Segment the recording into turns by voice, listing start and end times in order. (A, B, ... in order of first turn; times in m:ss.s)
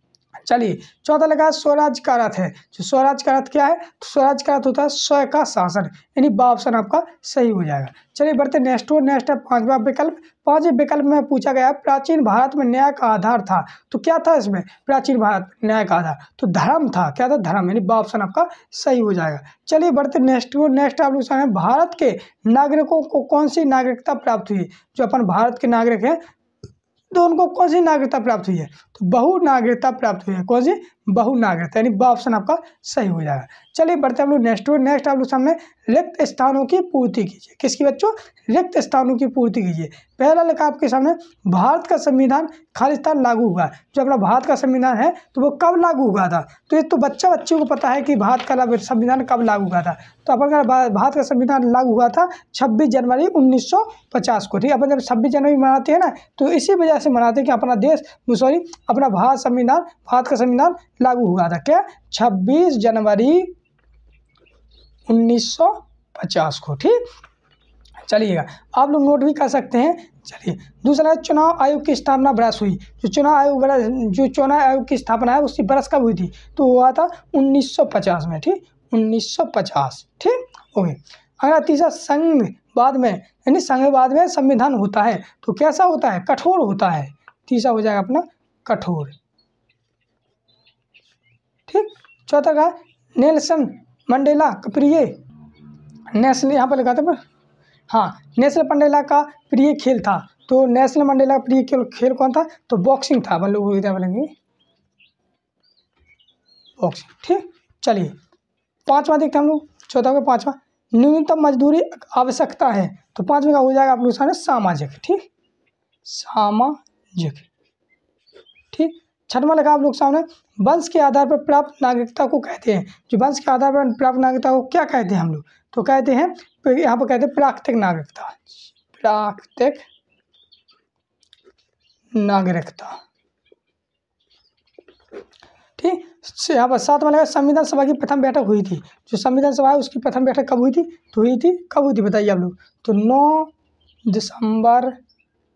0:00.4-0:26.2 A
0:27.1-1:03.5 A
1:05.1-1:07.0 A
1:08.0-1:29.1 A
1:31.7-1:35.2 A
1:36.1-1:37.2 A
1:37.9-1:44.3 A
1:46.8-1:48.1 A
1:48.9-1:55.2 A
1:56.0-1:57.4 A
1:58.7-2:09.8 A
2:12.1-2:13.0 A
2:15.8-2:23.5 A
2:24.1-2:25.0 A